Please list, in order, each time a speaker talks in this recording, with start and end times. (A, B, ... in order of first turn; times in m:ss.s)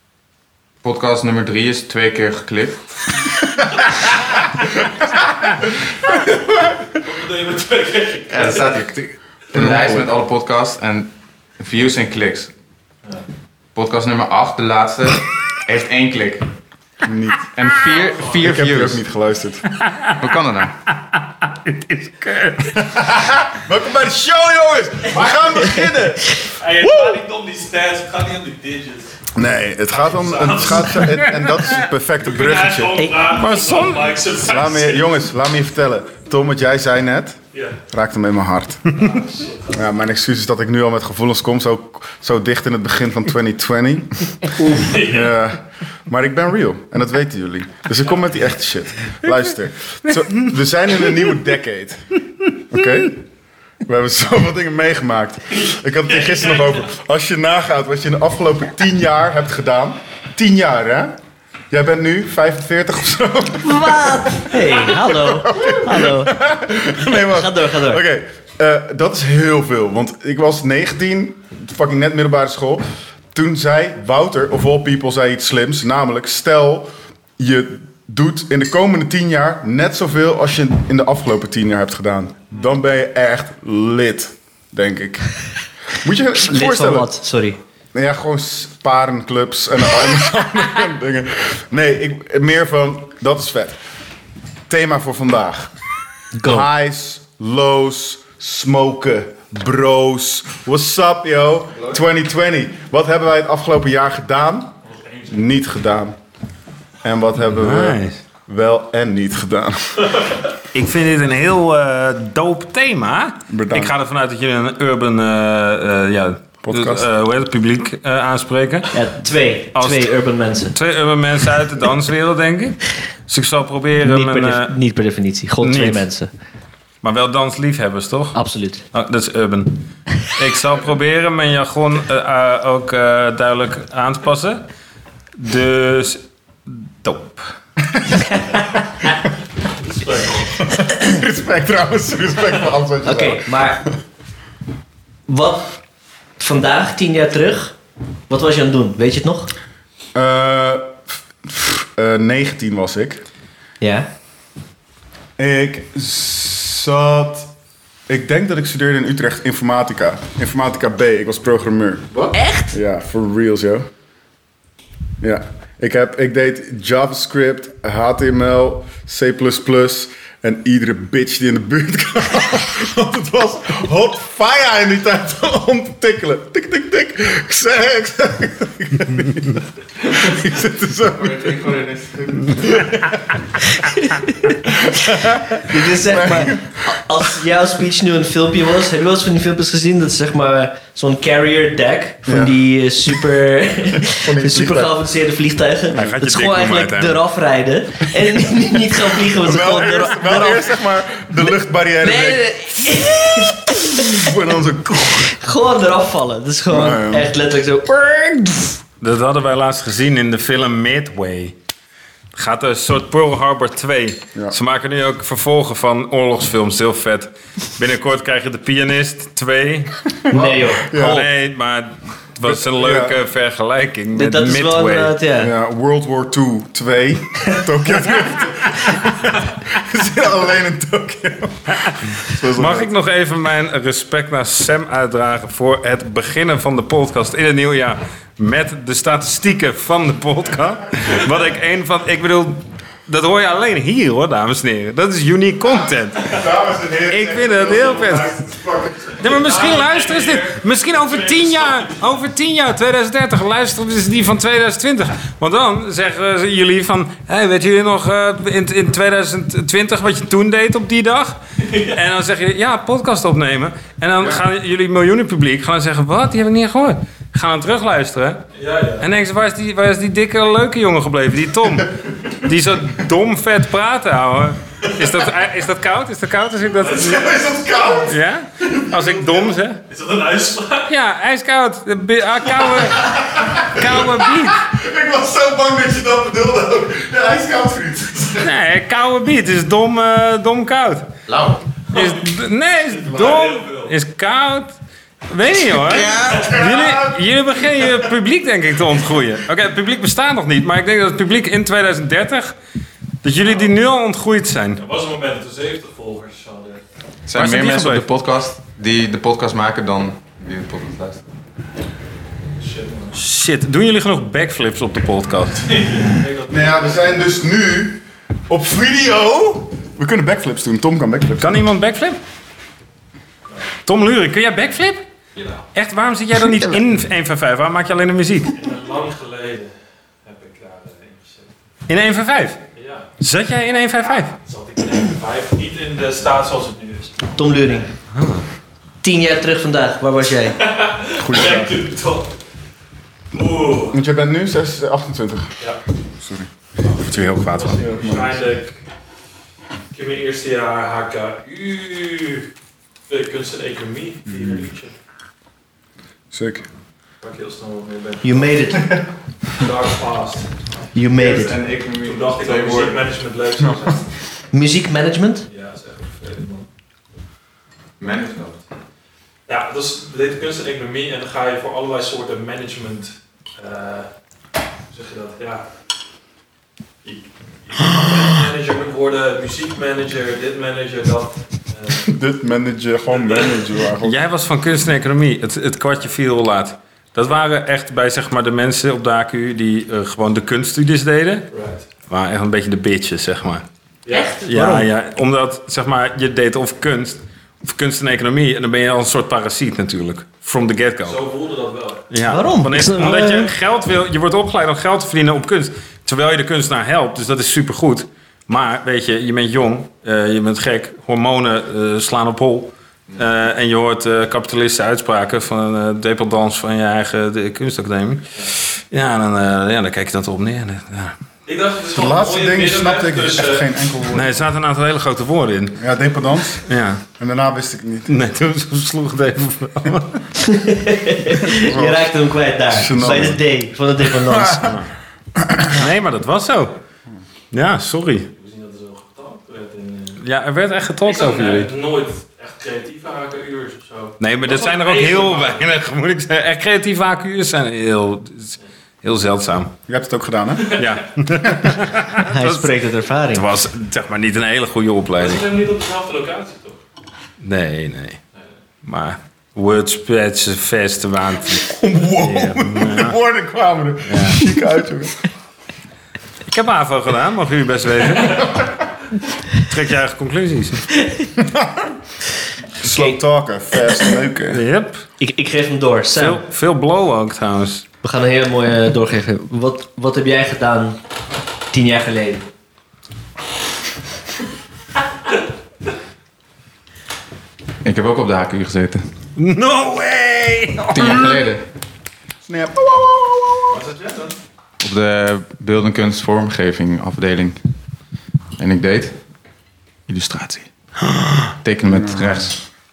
0:00.8-0:02.9 A
0:06.9-0:08.8 B
0:08.3-0:12.5 A
0:09.5-0:10.1 C
0:13.8-0:16.4 A
0:17.0-0:17.5 C
0:17.5-0:19.0 A
0:17.9-0:18.4 B
0:18.3-0:19.8 C
0:19.8-0:20.2 D
0:20.2-0:20.8 A
0:21.1-0:23.0 D
0:22.8-0:27.2 C
0:26.5-0:29.2 B
0:29.3-0:33.0 C
0:29.9-0:31.3 B
0:31.1-0:31.6 D
0:32.2-0:35.1 B
0:32.9-0:33.3 E
0:33.2-0:34.2 D
0:34.4-0:37.4 C
0:37.9-0:39.0 C
0:38.9-0:39.8 B
0:39.7-0:52.0 C
0:44.6-0:45.3 B
0:52.7-0:53.2 C
0:53.8-1:01.2 C
0:55.6-0:56.8 B
1:01.7-1:25.3 C
1:03.6-1:06.4 E
1:04.5-1:04.8 B
1:07.1-1:08.0 E
1:26.0-1:27.1 C
1:26.3-1:27.6 E
1:27.9-1:33.8 C
1:34.7-1:35.7 C
1:36.4-1:36.7 E
1:36.4-1:44.7 C
1:44.8-1:45.4 B
1:45.3-1:46.2 C
1:47.0-1:50.0 C
1:47.5-1:48.2 D
1:50.1-1:50.4 B
1:50.7-1:59.0 D
1:53.5-1:53.9 C
1:56.6-1:57.1 C
1:58.9-2:00.8 E
1:59.7-2:00.1 D
2:00.7-2:04.7 D
2:04.0-2:06.3 E
2:05.6-2:06.0 D
2:07.0-2:08.4 D
2:08.3-2:08.8 E
2:08.9-2:14.6 D
2:15.4-2:17.5 D
2:18.3-2:18.8 E
2:19.7-2:20.6 B
2:20.9-2:23.6 C
2:23.0-2:23.8 E
2:25.3-2:25.7 E
2:26.4-2:27.8 E
2:28.3-2:29.5 E
2:30.2-2:33.2 C
2:33.8-2:34.1 E
2:35.4-2:37.5 C
2:38.1-2:43.9 C
2:42.3-2:42.8 E
2:45.2-3:01.7 C
3:01.0-3:02.9 A
3:02.6-3:03.0 C
3:03.7-3:20.7 E
3:04.7-3:07.0 C
3:12.3-3:12.6 C
3:13.9-3:14.9 C
3:16.0-3:17.2 D
3:19.3-3:25.4 C
3:22.0-3:24.3 E
3:25.0-3:28.8 E
3:26.7-3:27.3 C
3:29.0-3:31.5 D
3:32.3-3:40.0 D
3:40.3-3:41.3 E
3:40.9-3:41.2 C
3:40.9-3:45.2 D
3:42.4-3:43.2 C
3:44.1-3:45.5 E
3:45.4-3:52.9 C
3:52.4-4:06.4 D
4:06.2-4:09.3 C
4:07.1-4:08.3 D
4:09.2-4:28.4 D
4:09.2-4:12.0 B
4:21.6-4:22.0 B
4:28.5-4:29.1 B
4:29.0-4:37.3 D
4:36.8-4:37.5 B
4:37.0-4:39.2 C
4:38.0-4:39.8 D
4:39.9-4:40.9 B
4:40.9-4:44.6 D
4:42.6-4:43.6 B
4:43.8-4:48.5 C
4:48.4-4:51.1 D
4:51.3-4:51.6 A
4:51.9-4:52.2 B
4:51.9-4:54.8 D
4:52.9-4:53.9 B
4:55.3-5:02.6 D
4:55.8-4:56.6 A
4:56.2-4:57.2 C
4:56.3-4:56.6 B
5:03.2-5:04.8 D
5:04.8-5:06.8 B
5:07.3-5:11.2 A
5:07.4-5:08.0 D
5:12.6-5:13.2 B
5:13.1-5:15.7 D
5:15.6-5:17.3 B
5:16.5-5:21.6 C
5:21.4-5:22.2 D
5:23.8-5:25.0 D
5:25.4-5:25.6 B
5:25.7-5:28.6 D
5:28.6-5:31.5 B
5:31.9-5:32.6 D
5:32.8-5:33.1 B
5:33.2-5:34.3 D
5:34.2-5:37.9 B
5:37.4-5:37.9 E
5:38.1-5:38.4 D
5:39.0-5:40.6 E
5:40.6-5:42.4 B
5:41.2-5:41.8 C
5:43.3-5:44.0 B
5:43.9-5:45.5 C
5:46.2-5:46.5 C
5:46.8-5:48.8 B
5:47.0-5:47.8 D
5:47.1-5:48.4 C
5:49.9-5:52.5 B
5:53.1-5:55.0 B
5:54.3-5:54.6 C
5:56.3-5:56.6 C
5:57.2-5:58.8 B
5:58.2-5:59.0 E
5:59.5-6:00.5 B
6:00.9-6:01.6 E
6:01.1-6:03.1 A
6:02.0-6:04.0 B
6:04.5-6:05.4 E
6:05.4-6:06.7 B
6:08.0-6:08.6 A
6:09.5-6:14.1 B
6:14.9-6:15.7 B
6:17.0-6:22.1 B
6:22.0-6:24.2 C
6:23.1-6:23.6 B
6:24.0-6:31.5 D
6:31.5-6:31.8 B
6:32.1-6:33.6 D
6:34.0-6:34.3 B
6:34.1-6:34.9 E
6:34.4-6:41.2 D
6:41.0-6:42.1 B
6:42.1-7:01.2 D
6:42.2-6:43.5 E
7:01.4-7:03.7 B
7:01.9-7:04.4 C
7:04.1-7:05.8 D
7:05.8-7:06.6 C
7:06.5-7:07.0 D
7:07.2-7:08.1 C
7:08.1-7:10.2 D
7:10.4-7:14.8 E
7:11.4-7:12.1 C
7:12.7-7:13.4 C
7:14.2-7:14.8 C
7:15.4-7:15.8 C
7:15.7-7:16.8 D
7:17.5-7:18.3 D
7:18.3-7:20.2 B
7:20.2-7:21.7 D
7:21.0-7:25.7 B
7:24.2-7:29.7 D
7:29.9-7:30.8 C
7:30.8-7:35.5 D
7:32.2-7:33.4 E
7:35.2-7:36.8 B
7:37.4-7:38.2 D
7:38.8-7:43.2 D
7:41.7-7:45.2 C
7:44.0-7:44.4 D
7:46.5-7:48.6 D
7:49.5-7:51.0 D
7:51.0-7:51.3 E
7:51.4-7:51.9 C
7:52.8-7:54.6 C
7:52.8-7:53.2 E
7:54.5-7:55.0 D
7:55.2-7:56.4 E
7:56.2-7:57.9 D
7:58.0-8:01.0 E
8:01.7-8:02.5 E
8:07.8-8:09.0 A
8:09.4-8:11.4 D
8:10.9-8:11.6 A
8:12.4-8:13.8 C
8:13.7-8:14.4 B
8:14.8-8:17.6 A
8:18.6-8:19.2 A
8:20.1-8:20.7 A
8:21.1-8:21.5 D
8:21.6-8:22.6 A
8:21.9-8:22.5 C